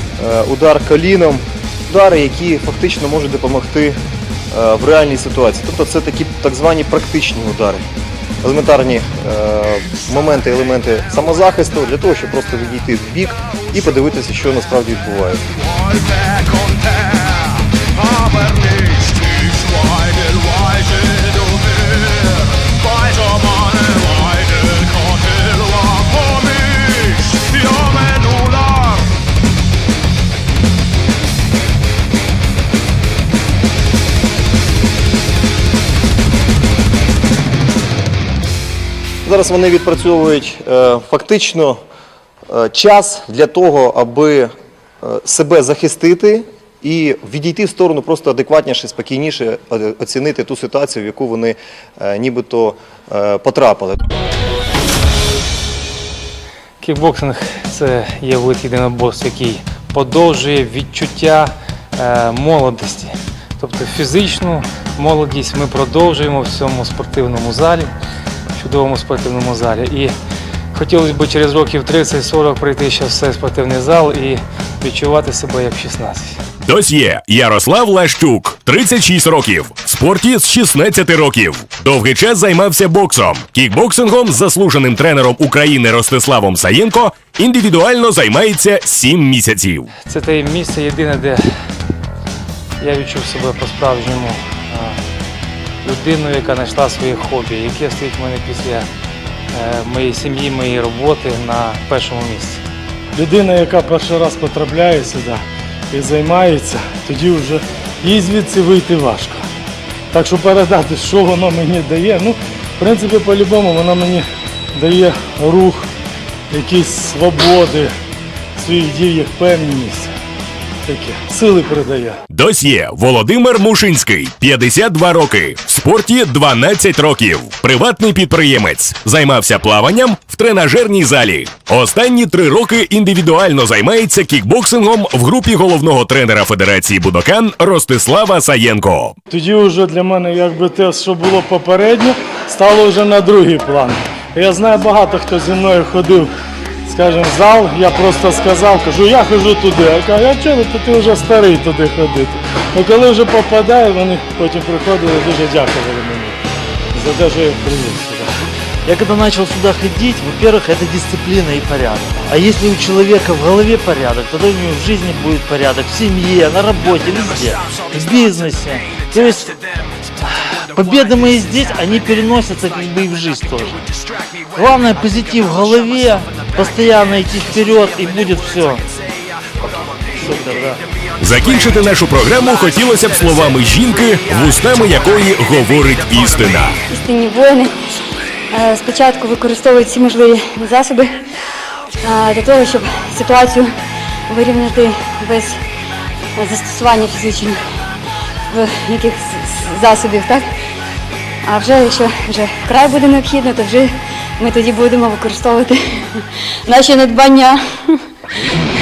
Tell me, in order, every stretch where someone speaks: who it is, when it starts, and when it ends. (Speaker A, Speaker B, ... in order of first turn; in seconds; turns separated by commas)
Speaker A: 0.2-4.0, Speaker A: 4.5-7.8, Speaker A: 8.4-15.4, Speaker A: 39.2-41.8, Speaker A: 42.5-44.5, Speaker A: 45.0-54.0, Speaker B: 56.8-67.9, Speaker B: 68.5-70.1, Speaker B: 70.7-76.4, Speaker C: 76.6-89.9, Speaker B: 90.1-91.5, Speaker B: 92.8-95.0, Speaker B: 95.8-98.9, Speaker B: 99.5-102.6, Speaker D: 103.1-109.4, Speaker D: 110.1-115.9, Speaker D: 116.5-117.9, Speaker D: 118.6-120.1, Speaker D: 120.9-122.2, Speaker C: 122.3-139.1, Speaker D: 139.3-146.3, Speaker D: 146.9-156.4, Speaker D: 156.9-158.3, Speaker E: 158.8-169.6, Speaker E: 170.7-173.8, Speaker E: 174.5-178.8, Speaker E: 180.2-180.8, Speaker C: 181.2-186.8, Speaker F: 186.9-187.7, Speaker F: 188.5-191.1, Speaker F: 192.0-193.7, Speaker F: 194.3-195.6, Speaker F: 196.3-197.6, Speaker F: 198.5-200.5, Speaker F: 201.4-207.9